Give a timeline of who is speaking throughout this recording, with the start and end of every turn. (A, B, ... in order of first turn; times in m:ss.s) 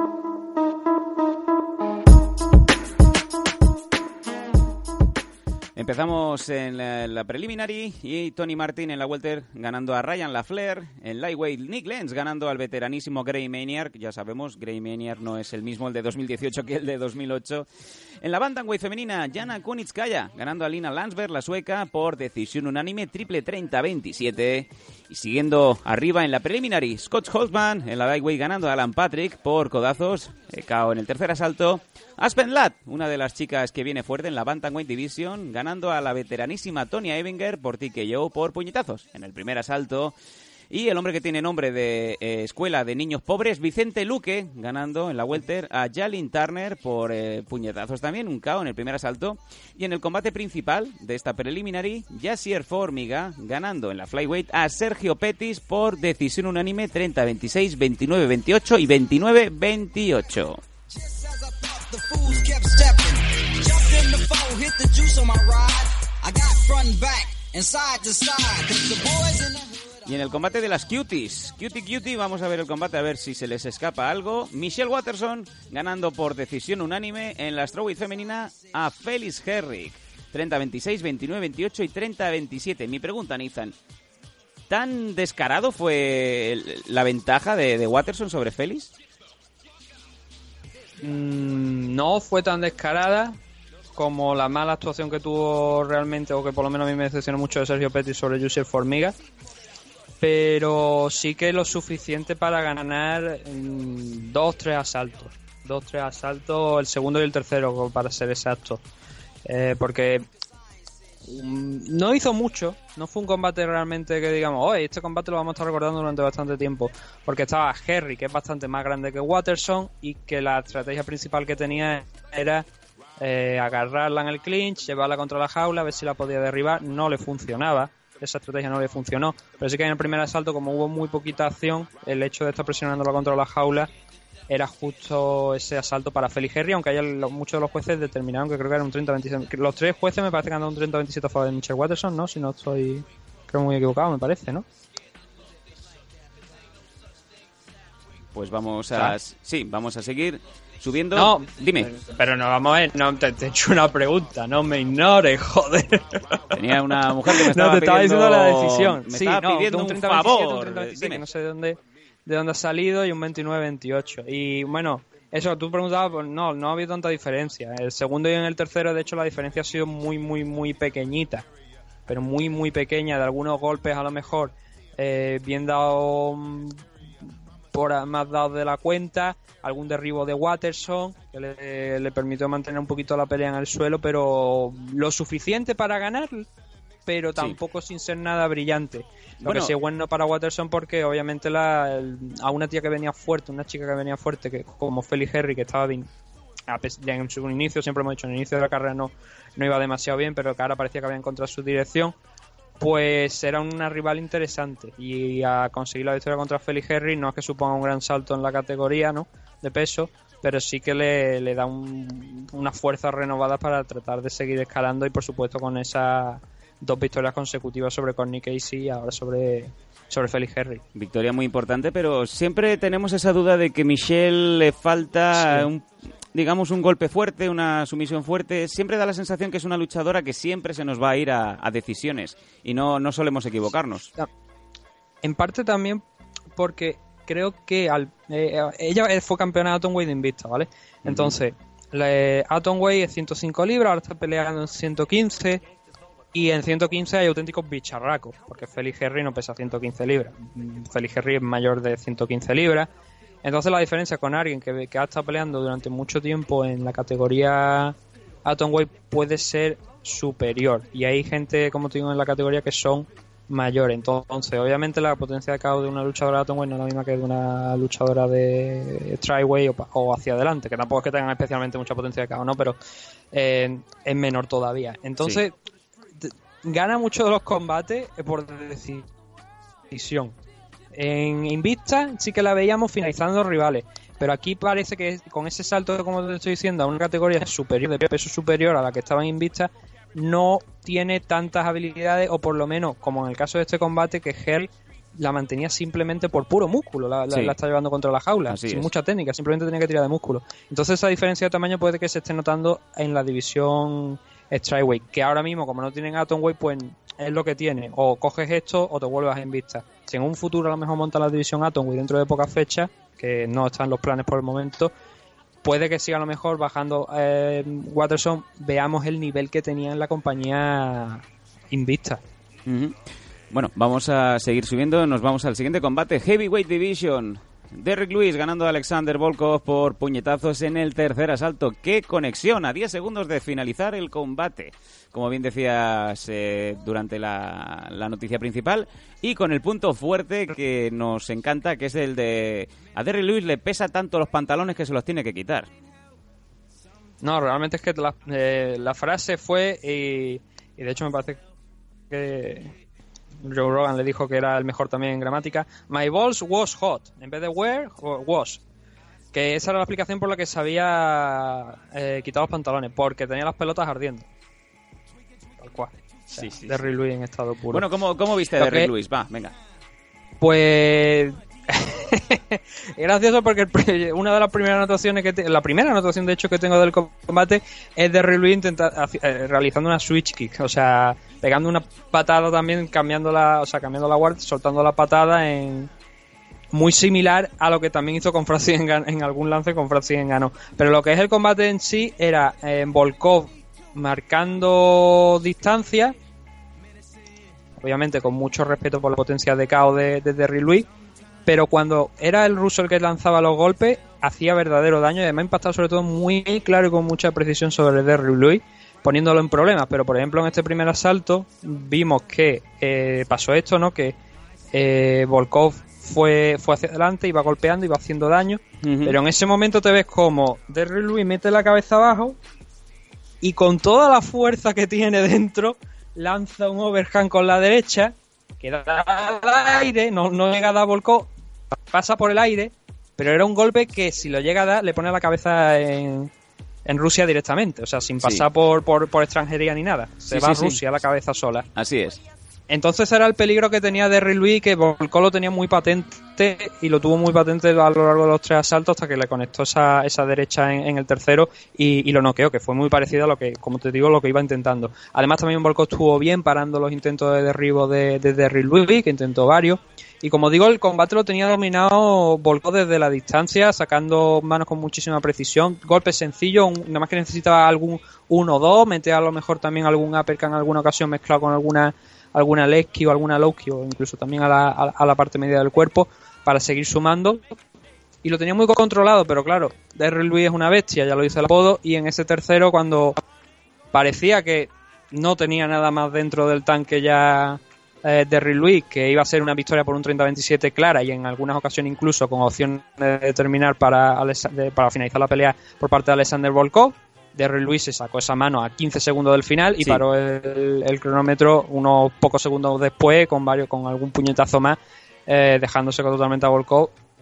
0:05.8-0:17.7 A
0:18.2-0:40.2 A
0:40.7-1:00.6 A
1:01.0-1:10.0 B
1:10.0-1:23.7 A
1:24.7-1:28.9 A
1:31.0-1:33.4 C
1:34.0-1:39.1 C
1:40.2-1:48.8 C
1:49.4-1:50.2 C
1:51.2-2:02.6 C
2:03.2-2:13.9 C
2:14.5-2:24.6 C
2:28.3-2:31.9 A
2:31.1-2:51.4 C
2:36.5-2:41.2 A
2:52.1-3:06.5 C
3:07.0-3:16.1 C
3:09.4-3:09.8 A
3:16.7-3:22.1 C
3:22.8-3:40.8 C
3:40.9-3:54.1 A
3:45.4-3:45.7 C
3:55.2-3:56.0 C
3:56.5-4:05.6 C
4:01.0-4:01.3 A
4:06.3-4:12.9 C
4:13.4-4:32.8 C
4:33.3-4:35.6 C
4:36.2-4:39.1 C
4:39.9-4:40.3 C
4:40.9-5:14.9 C
4:57.3-4:57.5 A
4:58.5-4:58.9 A
5:15.6-5:22.2 C
5:22.6-5:23.0 A
5:23.5-5:45.7 A
5:47.2-5:51.4 C
5:52.1-5:52.7 C
5:53.4-5:58.6 C
5:59.3-6:04.3 C
6:05.6-6:07.9 C
6:06.3-6:06.9 A
6:07.7-6:09.5 A
6:08.6-6:08.9 C
6:10.4-6:25.9 C
6:26.7-6:36.2 C
6:37.8-6:40.9 C
6:41.4-6:54.2 C
6:54.7-7:02.4 C
6:58.8-6:59.2 A
7:03.4-7:11.3 C
7:11.9-7:16.3 C
7:16.8-7:21.6 C
7:20.3-7:20.8 A
7:21.8-7:22.2 A
7:22.7-7:57.5 C
7:58.2-8:03.2 C
8:03.9-8:26.9 C